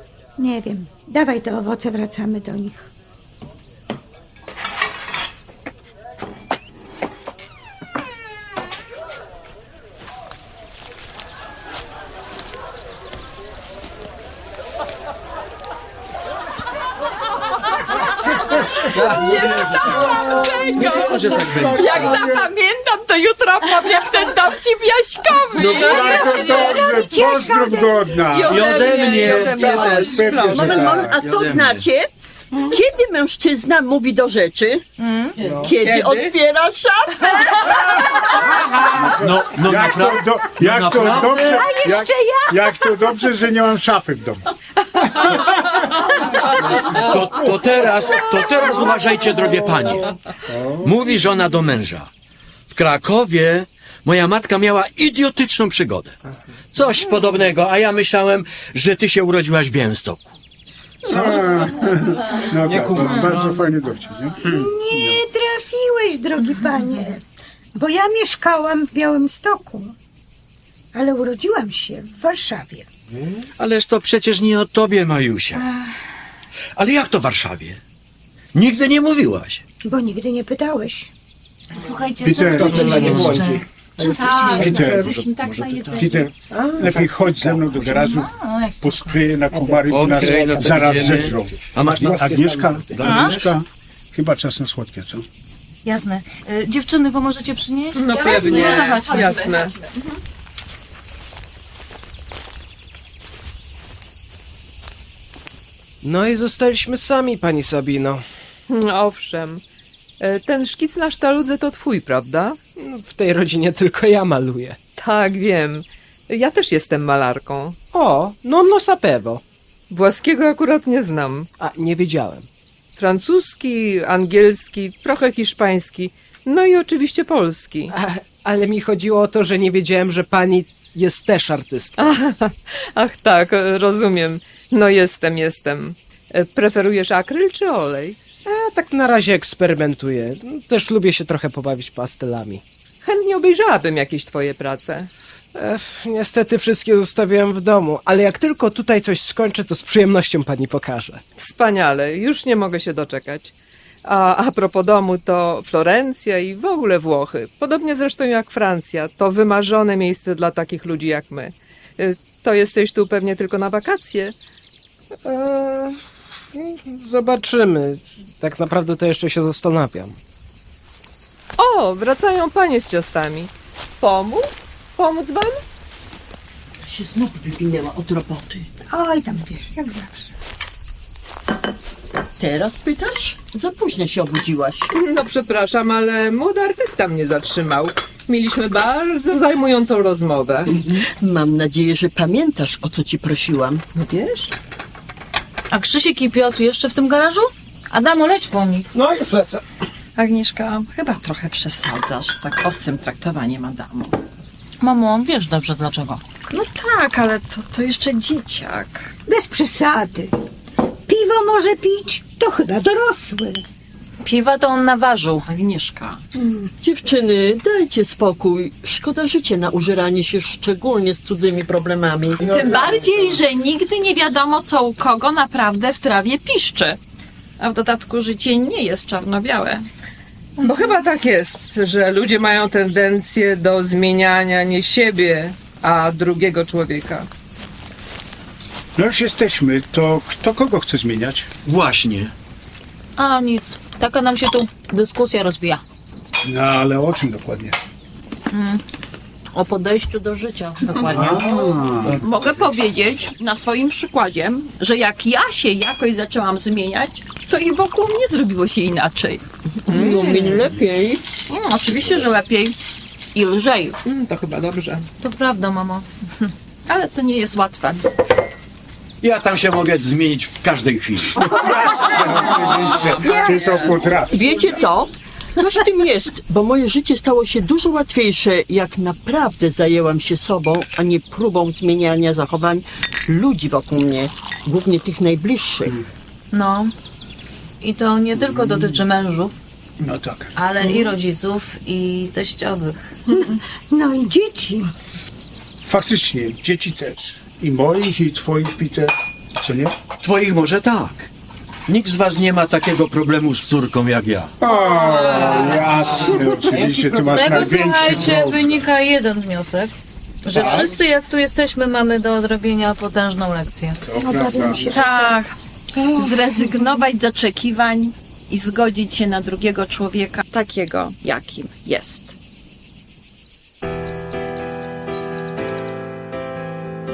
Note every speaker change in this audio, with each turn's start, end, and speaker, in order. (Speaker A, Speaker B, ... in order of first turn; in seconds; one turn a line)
Speaker A: 0.4-2.9
Speaker B: 18.4-27.3
Speaker C: 19.0-20.0
Speaker C: 20.8-22.3
Speaker D: 21.3-22.5
Speaker D: 25.5-31.2
Speaker E: 25.6-26.7
Speaker A: 26.3-28.2
Speaker E: 28.3-30.9
Speaker C: 28.5-31.9
Speaker B: 28.9-29.6
Speaker F: 30.2-32.1
Speaker F: 32.7-34.9
Speaker G: 35.0-35.4
Speaker H: 35.4-35.7
Speaker F: 35.5-38.3
Speaker E: 35.7-36.4
Speaker D: 38.2-44.4
Speaker C: 39.1-41.6
Speaker A: 41.2-43.2
Speaker D: 45.0-47.5
Speaker C: 46.9-50.1
Speaker D: 50.4-51.0
Speaker C: 50.8-52.1
Speaker C: 52.7-56.1
Speaker C: 56.7-60.4
Speaker D: 61.1-65.2
Speaker H: 61.1-61.8
Speaker H: 62.5-63.5
Speaker C: 62.9-63.2
Speaker A: 64.4-67.2
Speaker A: 67.8-69.9
Speaker A: 70.9-72.9
Speaker C: 73.6-75.6
Speaker C: 76.8-77.8
Speaker C: 78.5-79.6
Speaker A: 79.8-81.1
Speaker G: 81.7-86.2
Speaker D: 82.2-85.1
Speaker H: 82.3-85.2
Speaker C: 84.5-86.2
Speaker D: 86.0-95.3
Speaker H: 86.5-88.0
Speaker G: 87.8-89.4
Speaker H: 89.5-91.5
Speaker C: 89.9-93.6
Speaker H: 92.1-92.8
Speaker G: 93.0-93.3
Speaker G: 95.8-99.7
Speaker E: 98.0-99.7
Speaker B: 98.1-99.9
Speaker H: 106.0-108.2
Speaker E: 108.7-109.6
Speaker E: 110.2-112.6
Speaker H: 112.8-114.8
Speaker E: 115.0-117.8
Speaker H: 117.9-119.4
Speaker E: 119.9-121.5
Speaker H: 121.6-122.5
Speaker E: 123.0-127.9
Speaker H: 127.9-132.2
Speaker E: 132.0-138.2
Speaker H: 138.5-142.6
Speaker E: 143.0-145.1
Speaker H: 145.6-151.2
Speaker E: 151.4-153.5
Speaker E: 154.1-164.3
Speaker H: 165.2-170.2
Speaker E: 171.6-175.6
Speaker F: 176.8-178.7
Speaker A: 178.9-180.3
Speaker F: 182.4-184.9
Speaker E: 184.9-190.8
Speaker F: 190.8-193.8
Speaker E: 193.9-194.5
Speaker G: 195.7-198.9
Speaker H: 198.9-199.6
Speaker B: 200.2-204.2
Speaker G: 204.8-206.2
Speaker B: 206.5-209.1
Speaker A: 209.3-210.3
Speaker A: 211.1-213.6
Speaker G: 214.2-215.5
Speaker B: 215.5-216.2
Speaker A: 216.4-216.7
Speaker F: 216.8-222.9
Speaker H: 222.4-223.4
Speaker B: 222.4-227.0
Speaker B: 227.6-229.8
Speaker G: 230.6-230.9
Speaker E: 230.6-237.3
Speaker D: 239.0-241.5
Speaker C: 241.7-242.3
Speaker G: 243.2-245.8
Speaker D: 246.4-247.8
Speaker G: 248.5-248.8
Speaker G: 249.5-251.8
Speaker B: 251.0-251.4
Speaker D: 251.1-252.2
Speaker B: 252.1-260.8
Speaker F: 259.9-261.2
Speaker E: 259.9-260.3
Speaker B: 261.4-262.8
Speaker B: 263.3-264.0
Speaker E: 264.1-265.1
Speaker G: 265.2-266.5
Speaker B: 266.9-268.1
Speaker C: 269.2-271.6
Speaker D: 271.4-274.5
Speaker B: 273.1-273.9
Speaker F: 273.4-286.0
Speaker G: 286.5-286.9
Speaker G: 287.8-289.6
Speaker D: 288.5-288.9
Speaker D: 290.0-290.5
Speaker G: 290.6-293.0
Speaker A: 293.3-294.9
Speaker D: 295.9-300.0
Speaker C: 300.2-301.3
Speaker C: 301.9-304.6
Speaker D: 304.6-308.8
Speaker E: 305.0-306.3
Speaker G: 305.0-305.8
Speaker G: 307.1-309.9
Speaker G: 310.4-314.1
Speaker D: 310.4-311.0
Speaker D: 314.1-315.0
Speaker B: 314.1-315.5
Speaker B: 316.1-322.3